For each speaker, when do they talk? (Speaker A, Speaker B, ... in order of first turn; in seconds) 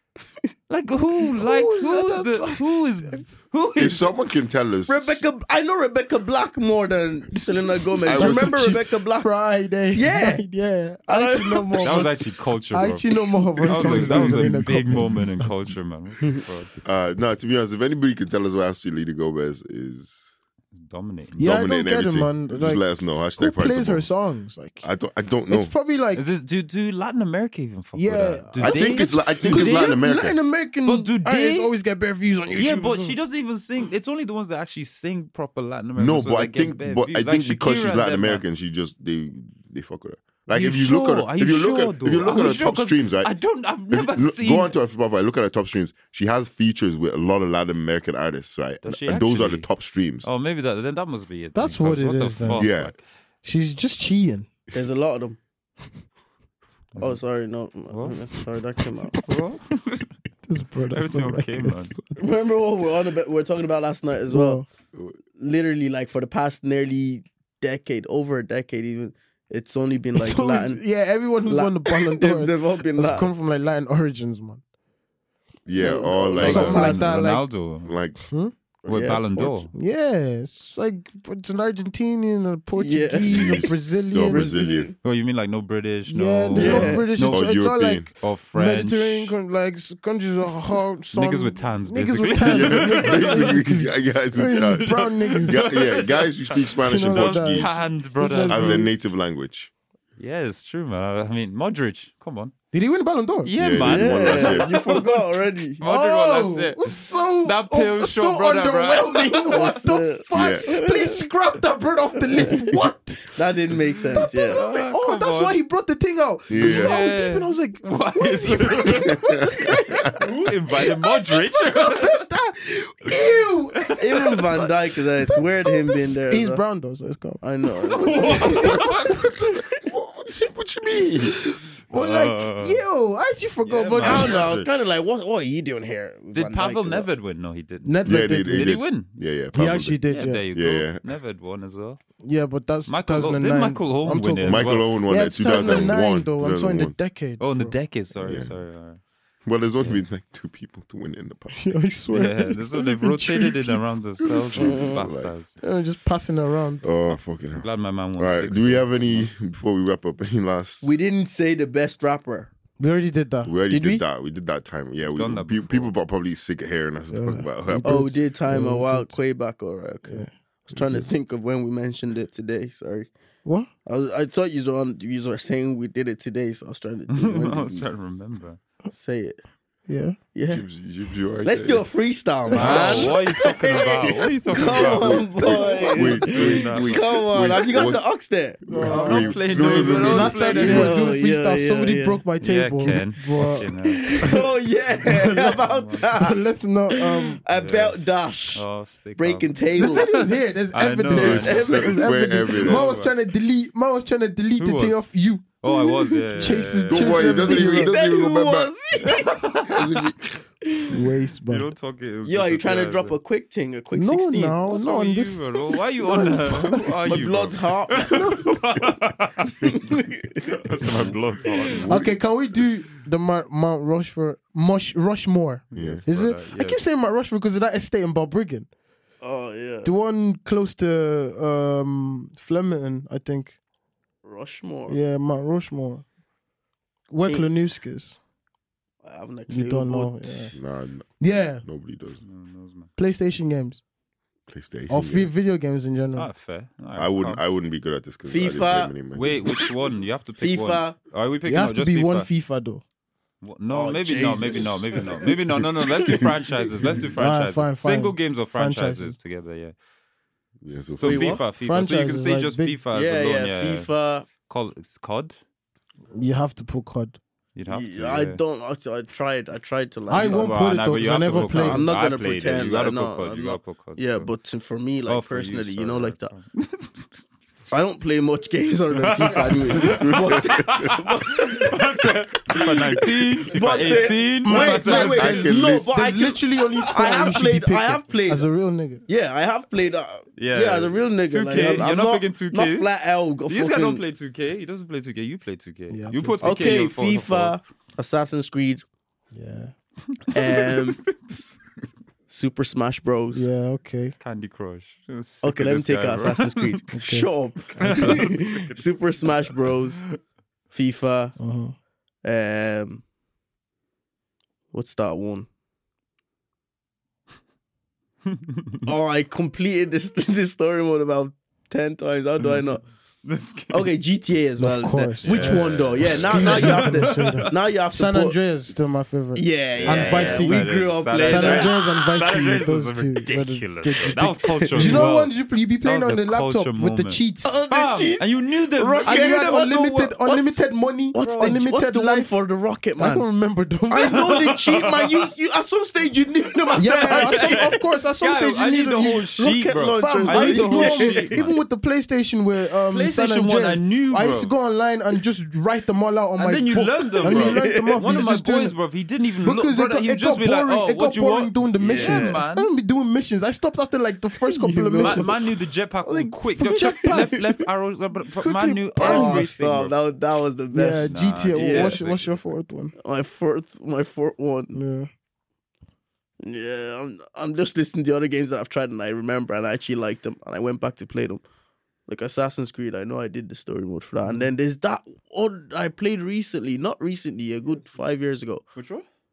Speaker A: 0.7-4.1, 11.8-16.8, 20.7-21.4, 26.1-30.0, 30.9-31.7, 32.5-38.4, 40.5-44.7, 48.8-49.7, 50.2-53.0, 56.9-57.2, 57.9-58.2, 59.2-60.1, 60.9-61.9, 76.4-78.0, 78.8-79.7, 85.0-87.6, 88.2-89.3, 91.1-93.7, 94.8-98.9, 100.2-102.5, 103.4-109.8, 114.1-115.6, 116.6-119.2, 120.1-122.3, 123.8-124.5, 127.9-129.3, 131.9-132.8, 133.6-134.7, 136.3-139.1, 140.1-142.0, 142.8-145.0, 145.5-145.9, 147.4-149.0, 152.1-155.6, 157.1-159.3, 165.1-165.9, 177.1-178.6, 182.5-187.1, 188.8-191.2, 192.4-194.4, 195.0-196.1, 197.5-198.0, 198.5-201.8, 202.5-203.1, 204.6-205.1, 205.6-207.6, 209.0-209.9, 211.5-213.1, 214.7-219.8, 220.3-222.1, 225.7-226.8, 242.2-242.9, 246.2-247.4, 249.1-252.3, 253.4-259.7, 260.9-265.4, 267.5-268.4, 270.1-274.3, 275.1-277.1, 278.9-285.4, 286.8-287.3, 290.4-292.9, 293.5-297.6, 300.2-301.6, 304.2-306.9, 307.6-310.0, 318.2-318.9, 323.2-323.9, 325.2-327.5, 329.8-340.2, 341.2-341.5, 344.1-345.3, 346.8-351.5, 352.9-354.5, 356.4-362.7, 365.0-369.9, 371.1-372.5, 388.7-389.1
Speaker B: 1.3-3.3, 8.1-15.7, 21.4-24.9, 25.5-26.2, 27.9-33.2, 51.5-52.7, 53.4-54.5, 60.4-62.3, 64.3-64.7, 70.1-74.6, 76.3-77.5, 78.2-78.5, 79.7-84.6, 86.1-95.8, 96.8-98.9, 102.7-103.5, 105.8-113.4, 114.1-127.4, 127.9-129.4, 131.2-134.5, 137.8-138.8, 139.5-140.5, 142.2-147.8, 151.5-153.8, 155.6-156.8, 162.8-163.5, 167.1-169.2, 179.9-180.2, 182.5-183.2, 188.7-194.4, 195.0-197.4, 199.8-205.4, 206.3-208.0, 210.8-211.7, 213.9-215.5, 216.1-216.8, 221.9-228.7, 229.8-233.5, 234.9-236.0, 237.1-238.2, 239.5-240.5, 241.2-241.6, 243.0-243.8, 244.9-246.3, 251.4-252.8, 257.1-259.2, 261.5-262.8, 266.1-267.2, 270.1-271.9, 284.4-289.0, 295.9-296.6, 299.3-299.7, 303.3-304.1, 306.9-307.3, 307.8-308.1, 311.4-311.7, 324.6-337.6, 339.0-342.3, 343.0-344.2, 346.8-358.8, 359.4-365.3, 366.0-367.4, 368.4-369.4, 370.7-372.9, 374.7-375.1
Speaker C: 3.8-5.2, 8.0-8.7, 16.8-20.2, 21.4-24.1, 24.8-25.7, 28.6-30.4, 36.0-43.3, 43.9-50.3, 52.5-52.9, 75.7-77.2, 77.8-78.2, 79.4-79.6, 83.2-84.9, 87.3-88.1, 92.4-97.9, 98.4-99.7, 103.6-104.7, 110.3-110.7, 116.5-117.0, 119.0-120.1, 129.2-131.3, 138.0-140.0, 140.5-141.0, 144.4-146.9, 148.2-148.5, 149.4-151.8, 154.5-155.3, 156.8-157.7, 158.2-160.9, 163.4-168.1, 180.5-181.8, 182.6-183.0, 184.5-188.1, 188.7-190.7, 201.2-202.9, 206.9-208.7, 209.7-210.2, 221.7-222.2, 225.7-226.0, 240.5-242.2, 244.5-245.3, 246.9-249.4, 260.6-261.4, 280.0-280.7, 285.1-285.9
Speaker D: 4.9-9.3, 9.9-10.4, 11.1-12.1, 13.6-14.5, 54.7-55.4, 57.0-59.2, 62.1-64.6, 65.4-70.8, 71.5-73.3, 75.8-77.1, 78.8-79.2, 82.8-83.7, 84.3-84.9, 86.5-87.0, 103.8-105.8, 109.5-111.2, 112.3-112.8, 113.3-114.6, 124.0-126.6, 127.4-128.9, 134.0-137.1, 154.6-155.0, 160.8-162.5, 163.7-164.0, 167.8-173.1, 173.8-177.8, 178.9-179.4, 180.3-180.6, 181.4-188.6, 190.3-192.2, 193.8-196.4, 196.9-200.1, 201.1-202.0, 205.7-206.5, 207.4-209.3, 210.6-210.9, 212.2-214.6, 216.0-218.5, 219.6-221.9, 229.2-229.9, 234.2-235.0, 239.0-240.5, 248.3-248.9, 250.4-250.9, 253.7-257.0, 261.0-261.4, 262.9-264.3, 267.7-270.6, 271.3-276.3, 277.7-288.5, 289.1-294.0, 296.4-298.8, 300.3-301.1, 302.3-303.5, 305.4-310.0, 310.7-311.4, 312.2-313.0, 314.7-315.5, 318.8-322.8, 323.7-328.4, 329.3-331.9, 334.4-335.1, 337.4-340.5, 341.1-343.2, 343.9-347.8, 349.4-351.5, 357.1-358.0, 361.8-362.4, 364.4-365.4, 366.6-367.5, 369.0-372.0, 373.0-374.8, 376.4-381.4, 382.1-388.6